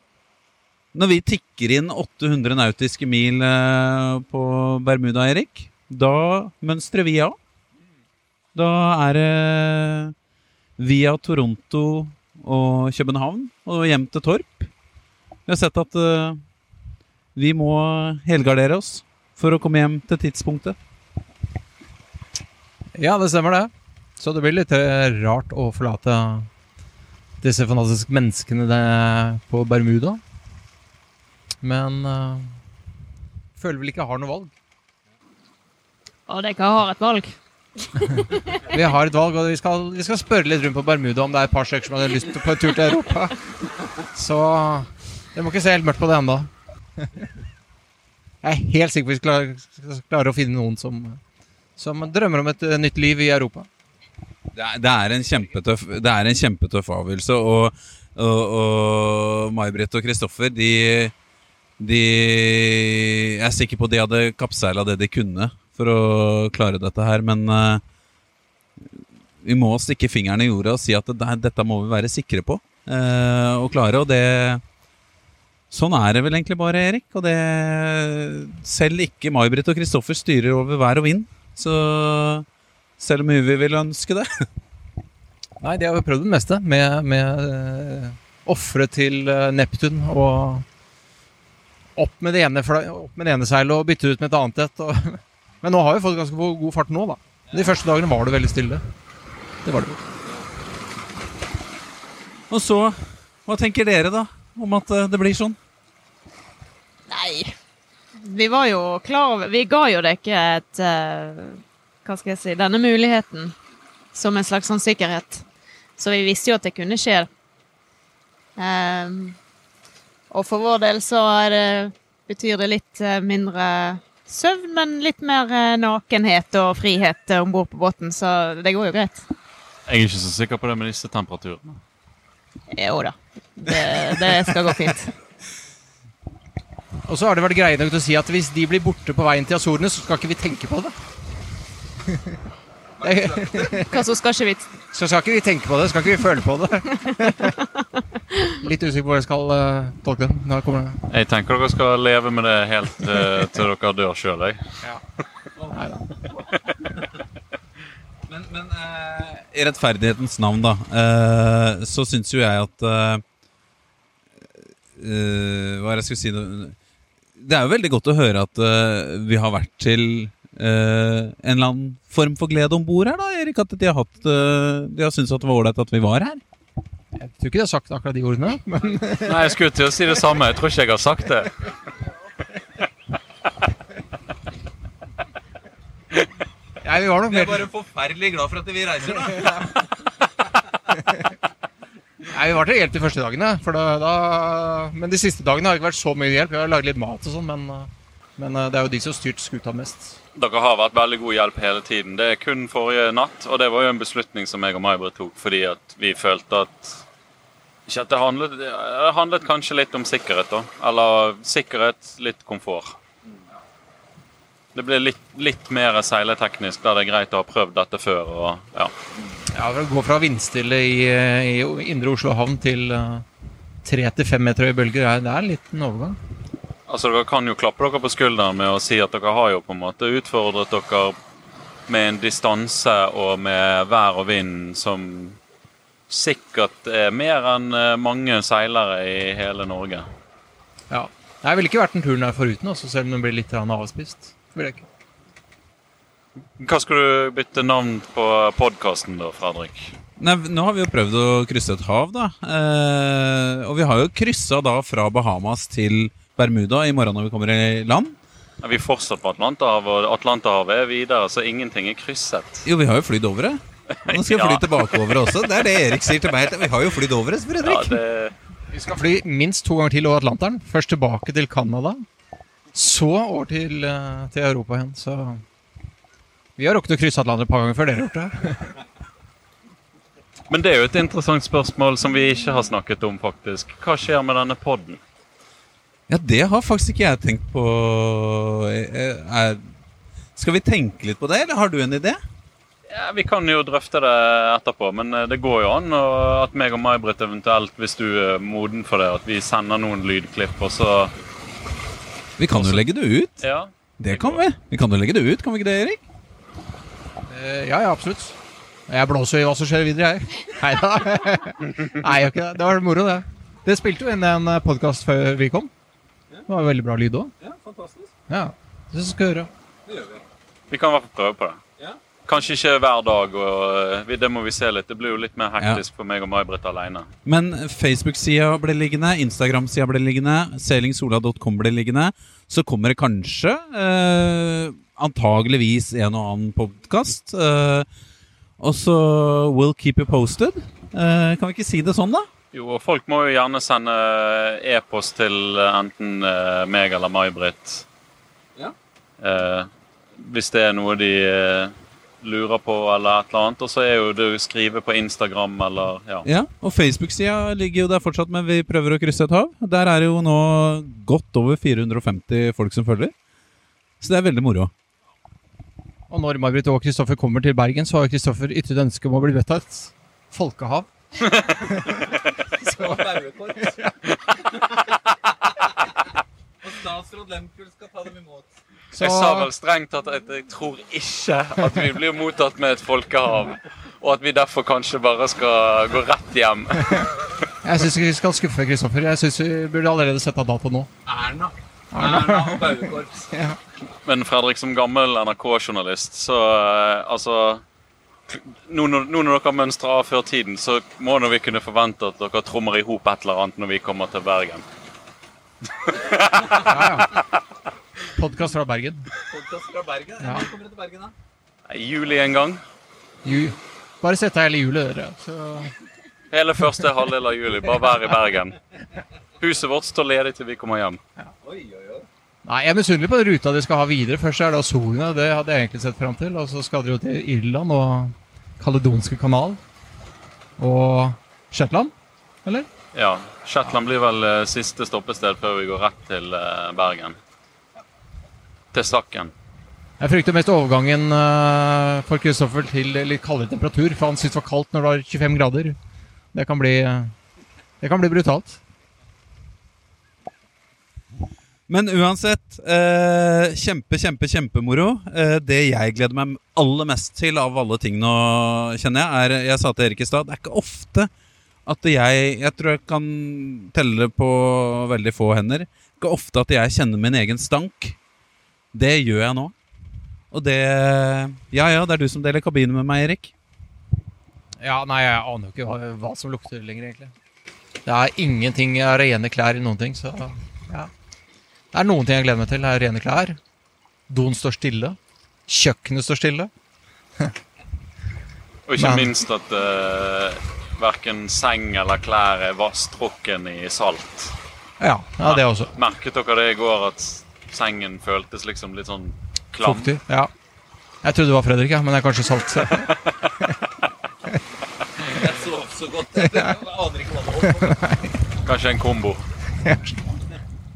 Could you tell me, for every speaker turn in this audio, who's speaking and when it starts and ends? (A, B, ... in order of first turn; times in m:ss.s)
0:00.9-0:07.4 A
0:08.5-0:10.1 A
0:10.8-0:14.7 A
0:15.5-0:16.4 A
0:17.3-0:20.8 A
0:22.9-0:26.5 B
0:27.4-0:30.2 B
0:31.6-0:32.6 B
0:33.5-0:34.5 B
0:36.3-0:38.6 C
0:38.7-0:43.4 B
0:44.1-0:46.5 B
0:48.4-0:51.2 B
0:51.8-0:53.7 B
0:54.5-1:01.1 A
1:01.8-1:07.8 A
1:08.9-1:14.6 A
1:15.7-1:22.4 A
1:23.0-1:24.3 A
1:25.6-1:30.6 B
1:32.0-1:38.8 B
1:39.6-1:40.0 B
1:42.5-1:45.6 A
1:47.1-1:47.5 C
1:48.2-1:53.5 C
1:54.1-1:55.4 C
1:56.0-1:57.3 C
1:58.6-1:59.4 C
2:00.3-2:09.3 C
2:09.9-2:11.8 D
2:12.7-2:15.1 C
2:17.0-2:20.9 B
2:23.0-2:24.0 B
2:23.0-2:23.7 A
2:23.9-2:24.7 C
2:24.9-2:27.5 B
2:27.0-2:27.3 C
2:27.8-2:28.5 C
2:28.6-2:31.0 B
2:31.1-2:34.6 D
2:35.7-2:36.1 B
2:38.3-2:43.2 A
2:45.0-2:46.8 A
2:47.4-2:56.4 A
2:57.2-2:59.4 B
2:59.2-3:01.7 D
3:06.8-3:07.7 B
3:07.2-3:09.8 A
3:12.3-3:20.2 B
3:20.4-3:27.0 D
3:27.9-3:33.0 D
3:34.7-3:38.9 D
3:39.5-3:43.2 B
3:43.8-3:46.2 B
3:46.9-3:51.2 D
3:51.9-3:55.4 D
3:56.1-4:00.1 D
4:00.9-4:04.8 B
4:06.6-4:09.9 D
4:10.2-4:18.2 A
4:18.6-4:22.6 D
4:22.6-4:28.0 A
4:24.0-4:25.3 D
4:27.6-4:28.4 D
4:28.7-4:32.0 B
4:32.7-4:35.4 B
4:36.6-4:38.7 B
4:40.5-4:45.0 D
4:46.1-4:49.6 A
4:50.4-4:52.2 A
4:52.9-5:01.1 D
5:02.4-5:03.4 A
5:03.4-5:04.4 D
5:04.0-5:06.0 A
5:07.3-5:08.4 B
5:08.9-5:15.7 B
5:16.5-5:17.3 B
5:17.4-5:18.1 A
5:18.3-5:19.5 B
5:19.9-5:20.2 A
5:20.7-5:21.6 D
5:22.2-5:27.1 D
5:25.6-5:25.8 A
5:27.2-5:37.9 A
5:38.6-5:42.3 A
5:42.5-5:47.8 D
5:49.2-5:56.2 D
5:56.2-6:03.1 A
6:04.0-6:04.7 A
6:06.1-6:10.9 B
6:11.5-6:12.0 B
6:12.0-6:13.9 A
6:12.6-6:13.6 B
6:14.1-6:14.4 D
6:16.6-6:18.5 A
6:18.9-6:27.1 D
6:19.0-6:19.5 B
6:27.6-6:30.9 B
6:31.0-6:33.3 A
6:31.9-6:33.6 B
6:34.0-6:37.6 D
6:38.3-6:44.6 D
6:45.8-6:47.2 D
6:46.6-6:47.1 B
6:48.1-6:49.0 B
6:49.3-6:51.1 A
6:50.2-6:50.5 B
6:51.7-6:52.6 D
6:53.2-6:55.7 B
6:56.3-6:58.6 D
6:59.4-7:01.0 D
7:01.4-7:02.1 A
7:02.4-7:09.6 B
7:10.6-7:11.9 B
7:12.9-7:17.2 D
7:18.7-7:19.3 D
7:20.0-7:25.8 B
7:26.3-7:27.1 B
7:27.8-7:28.6 B
7:31.7-7:41.1 A
7:41.6-7:48.0 A
7:48.7-7:49.5 A
7:50.3-7:53.3 A
7:54.6-7:57.1 B
7:57.8-8:00.9 B
8:01.7-8:03.4 B
8:04.1-8:06.5 B
8:08.7-8:14.4 D
8:08.8-8:09.1 B
8:14.8-8:15.7 B
8:15.2-8:19.9 D
8:19.6-8:20.3 B
8:21.0-8:23.4 B
8:25.1-8:27.8 A
8:26.2-8:26.6 B
8:27.6-8:28.0 B
8:28.4-8:29.2 D
8:29.6-8:30.0 B